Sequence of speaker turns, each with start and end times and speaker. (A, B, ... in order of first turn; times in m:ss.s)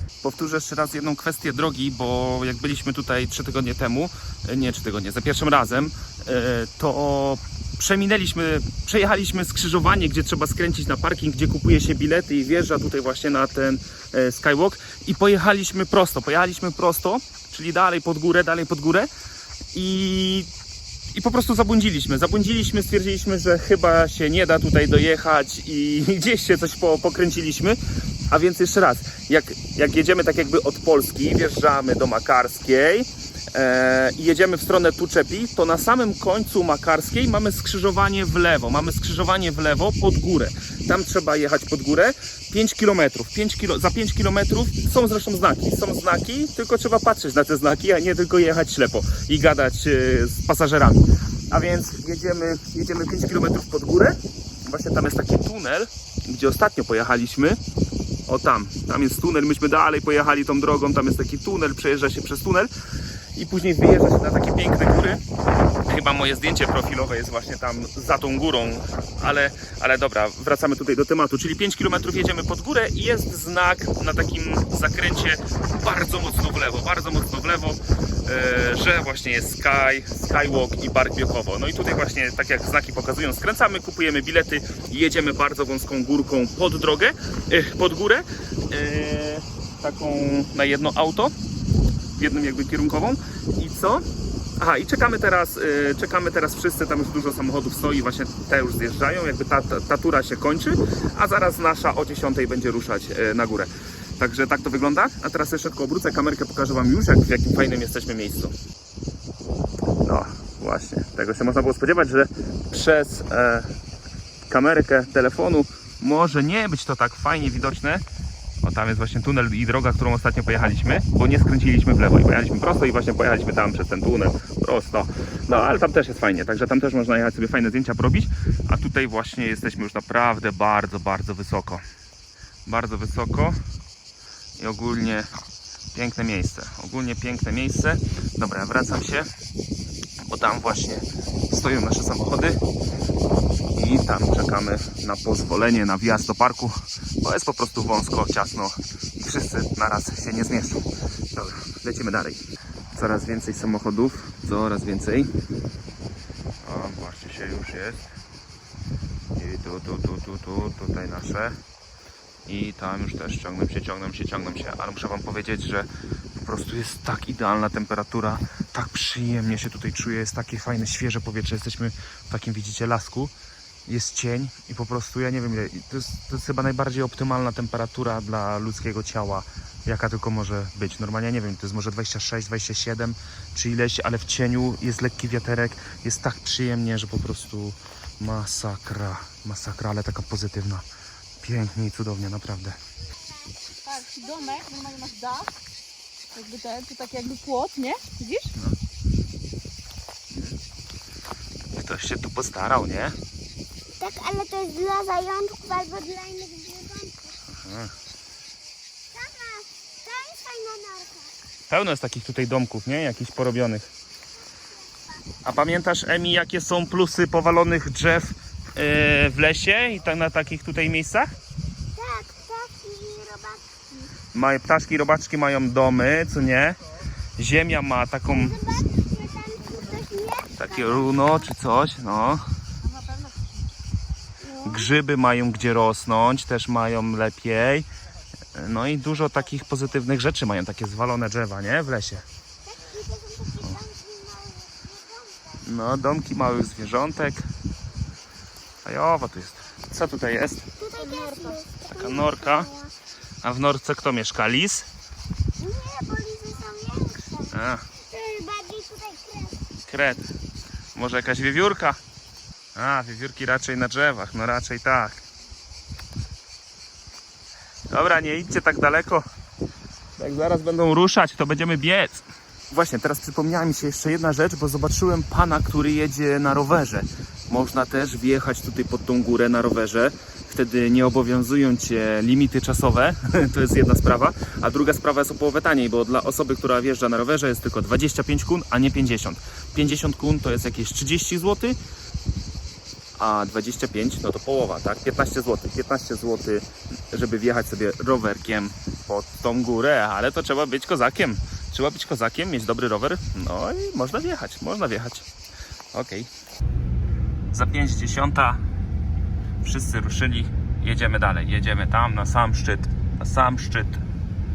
0:00.2-0:19.1 A
0:19.7-0:20.5 A
0:21.1-0:57.6 A
0:58.3-1:02.7 A
1:03.4-1:05.2 A
1:05.9-1:31.4 A
1:32.2-1:48.6 A
1:50.0-1:53.7 A
1:54.5-1:58.0 A
1:58.6-2:11.8 A
2:12.7-2:13.6 A
2:14.6-2:15.3 A
2:15.9-2:19.3 A
2:20.2-2:22.6 A
2:23.7-2:35.3 A
2:36.6-2:38.1 A
2:39.4-2:41.6 A
2:42.5-2:45.9 A
2:46.4-2:53.3 A
2:53.9-3:10.8 A
3:11.4-3:12.8 A
3:13.2-3:14.6 B
3:13.8-3:15.5 C
3:16.3-3:18.5 C
3:21.7-3:23.2 A
3:24.0-3:27.4 B
3:27.5-3:27.9 A
3:29.1-3:31.4 B
3:31.7-3:33.9 A
3:34.9-3:35.2 B
3:35.4-3:41.3 A
3:41.9-3:44.1 B
3:44.3-3:46.8 A
3:47.4-3:48.6 A
3:48.3-3:51.3 B
3:50.5-3:52.4 A
3:52.8-3:53.6 C
3:54.4-3:54.9 B
3:54.6-3:57.9 A
3:58.5-4:02.2 A
4:02.6-4:05.6 B
4:05.6-4:07.5 A
4:08.8-4:10.7 A
4:10.8-4:12.9 B
4:11.0-4:11.6 C
4:11.9-4:12.7 A
4:13.4-4:14.9 A
4:15.6-4:17.6 B
4:17.5-4:17.8 A
4:18.1-4:19.6 B
4:19.9-4:20.3 A
4:20.9-4:22.0 A
4:22.8-4:25.2 A
4:27.9-4:29.2 A
4:30.2-4:51.8 A
4:53.2-5:05.3 A
5:05.9-5:06.3 A
5:07.5-5:08.6 A
5:09.6-5:14.0 A